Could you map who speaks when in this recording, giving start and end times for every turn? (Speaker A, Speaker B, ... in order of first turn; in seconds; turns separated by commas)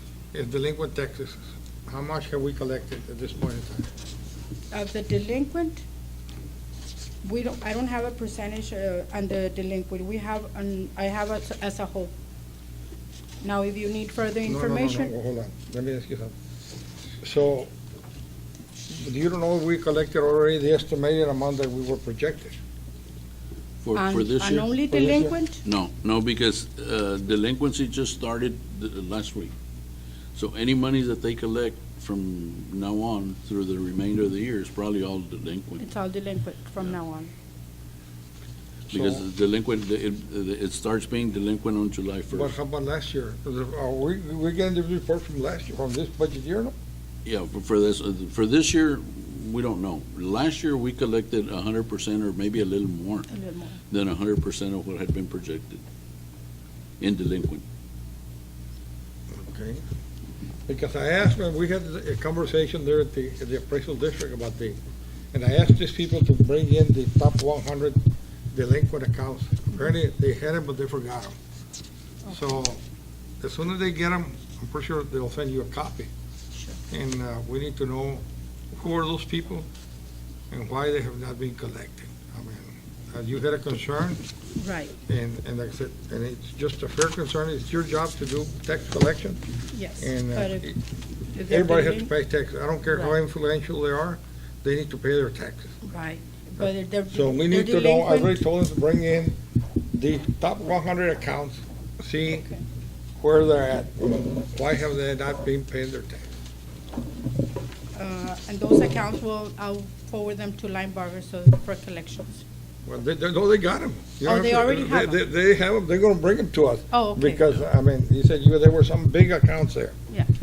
Speaker A: 0.3-3.9, Speaker B: 4.7-5.8, Speaker B: 7.2-12.1, Speaker B: 13.4-15.1, Speaker A: 14.5-16.3, Speaker A: 17.2-17.7, Speaker A: 18.9-22.6, Speaker C: 23.8-24.7, Speaker B: 23.9-25.6, Speaker A: 24.9-25.4, Speaker C: 25.6-29.5, Speaker C: 30.4-35.8, Speaker B: 35.8-37.3, Speaker C: 38.9-42.5, Speaker A: 38.9-39.3, Speaker A: 42.3-46.7, Speaker C: 47.2-53.3, Speaker B: 53.3-53.8, Speaker C: 53.9-55.8, Speaker C: 57.0-57.6, Speaker A: 59.3-59.8, Speaker A: 60.7-64.8, Speaker A: 65.3-68.0, Speaker A: 68.5-71.4, Speaker A: 72.3-72.8, Speaker A: 73.4-76.1, Speaker A: 76.9-79.7, Speaker A: 80.5-84.2, Speaker B: 84.6-84.9, Speaker A: 85.0-89.4, Speaker B: 89.7-90.7, Speaker A: 90.0-90.8, Speaker B: 91.3-92.1, Speaker A: 91.5-95.8, Speaker B: 95.8-98.4, Speaker A: 96.6-99.4, Speaker A: 99.9-102.5, Speaker A: 103.2-106.3, Speaker B: 107.9-112.4, Speaker A: 112.9-120.0, Speaker B: 114.2-115.2, Speaker B: 116.9-117.4